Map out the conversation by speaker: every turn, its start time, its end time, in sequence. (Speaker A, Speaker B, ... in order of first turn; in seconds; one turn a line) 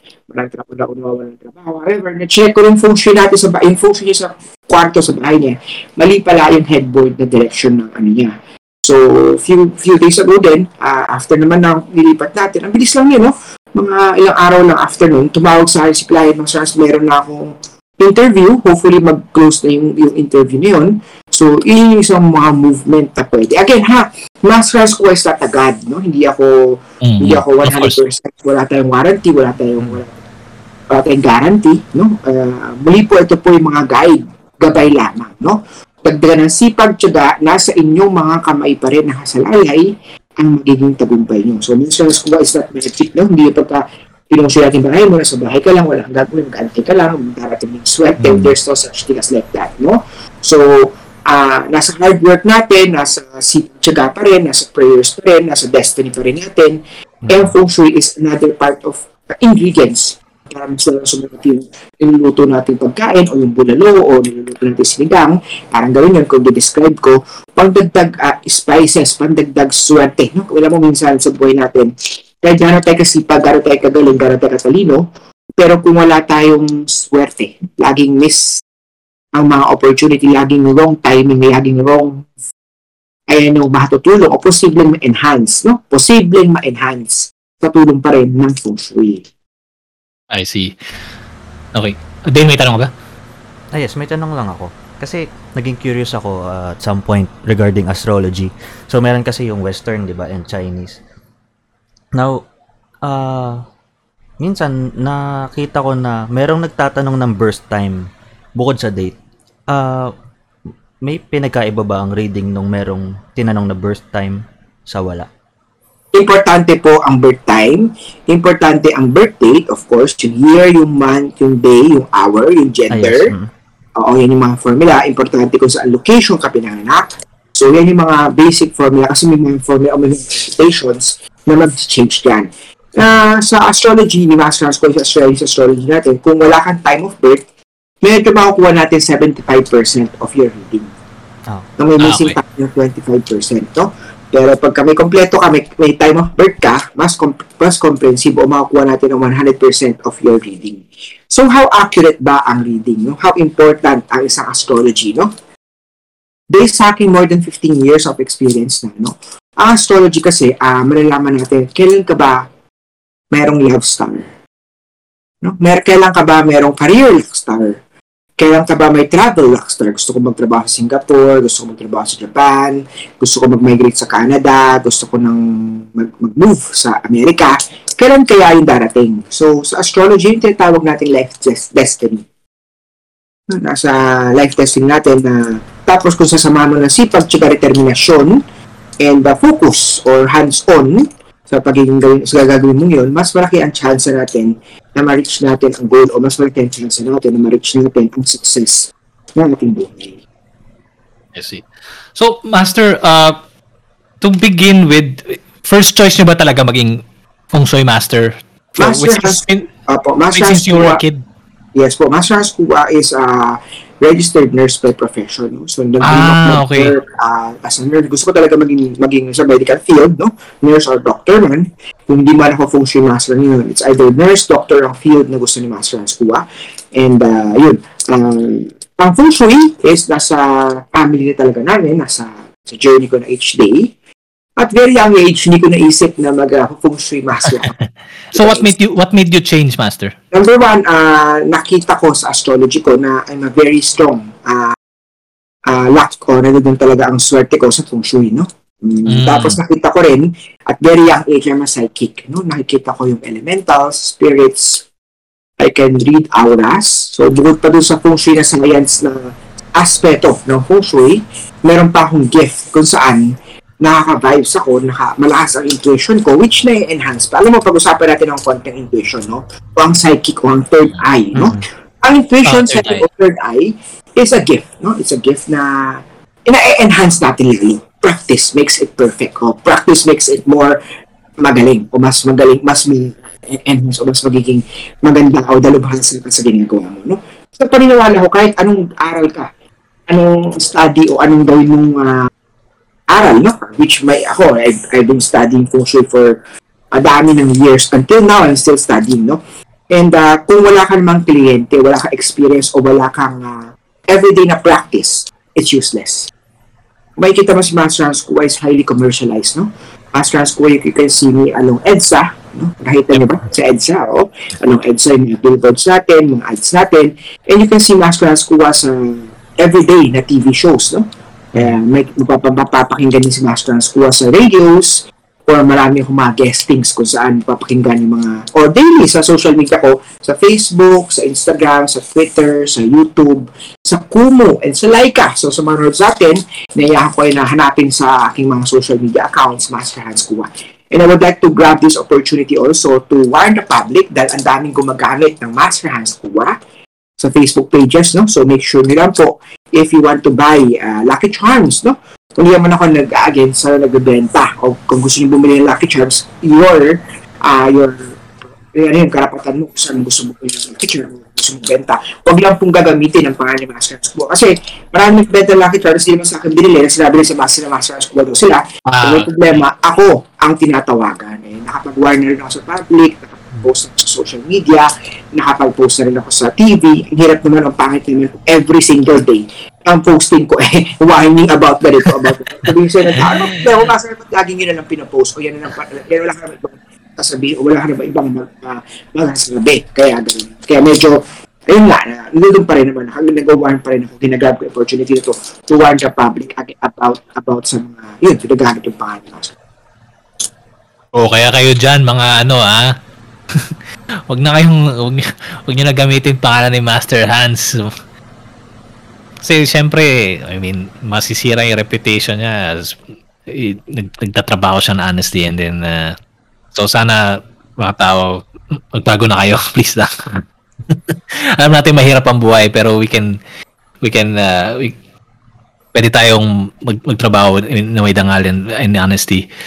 Speaker A: 0.3-30.2
Speaker B: 27.0-28.0
Speaker A: 30.9-71.9
Speaker B: 48.2-48.5
Speaker A: 72.4-75.0
Speaker A: 75.6-78.6
Speaker A: 79.4-82.3
Speaker A: 83.3-89.2
Speaker B: 90.3-90.7
Speaker B: 91.8-92.9
Speaker C: 93.7-101.0
Speaker C: 102.2-102.4
Speaker C: 103.0-103.6
Speaker C: 104.4-109.2
Speaker C: 109.7-110.1
Speaker C: 111.0-115.3
Speaker A: 116.1-123.3
Speaker C: 122.9-123.5
Speaker A: 124.0-137.4
Speaker A: 138.0-140.9
Speaker A: 141.8-155.3
Speaker B: 142.0-142.4
Speaker A: 156.5-162.5
Speaker A: 163.3-164.3
Speaker A: 165.4-167.8
Speaker A: 168.4-182.2
Speaker A: 183.5-188.4
Speaker A: 189.0-200.2
Speaker B: 201.3-203.4
Speaker B: 204.2-209.7
Speaker A: 208.8-211.0
Speaker B: 210.3-211.2
Speaker A: 211.8-226.4
Speaker B: 216.0-216.9
Speaker A: 226.9-233.9
Speaker A: 234.6-237.8
Speaker A: 238.3-238.7
Speaker B: 238.3-240.2
Speaker A: 240.3-244.8
Speaker A: 245.7-254.8
Speaker B: 249.1-249.6
Speaker A: 255.6-280.8
Speaker C: 271.4-271.6
Speaker B: 272.4-273.1
Speaker A: 281.4-289.5
Speaker A: 290.1-292.3
Speaker A: 293.1-296.4
Speaker A: 296.9-306.3
Speaker A: 307.2-346.6
Speaker A: 347.2-358.2
Speaker A: 358.7-399.6
Speaker B: 368.9-369.3
Speaker B: 383.1-383.9
Speaker B: 401.1-402.9
Speaker B: 404.3-407.9
Speaker B: 409.4-416.2
Speaker B: 416.7-423.3
Speaker B: 424.0-424.9
Speaker B: 425.9-429.5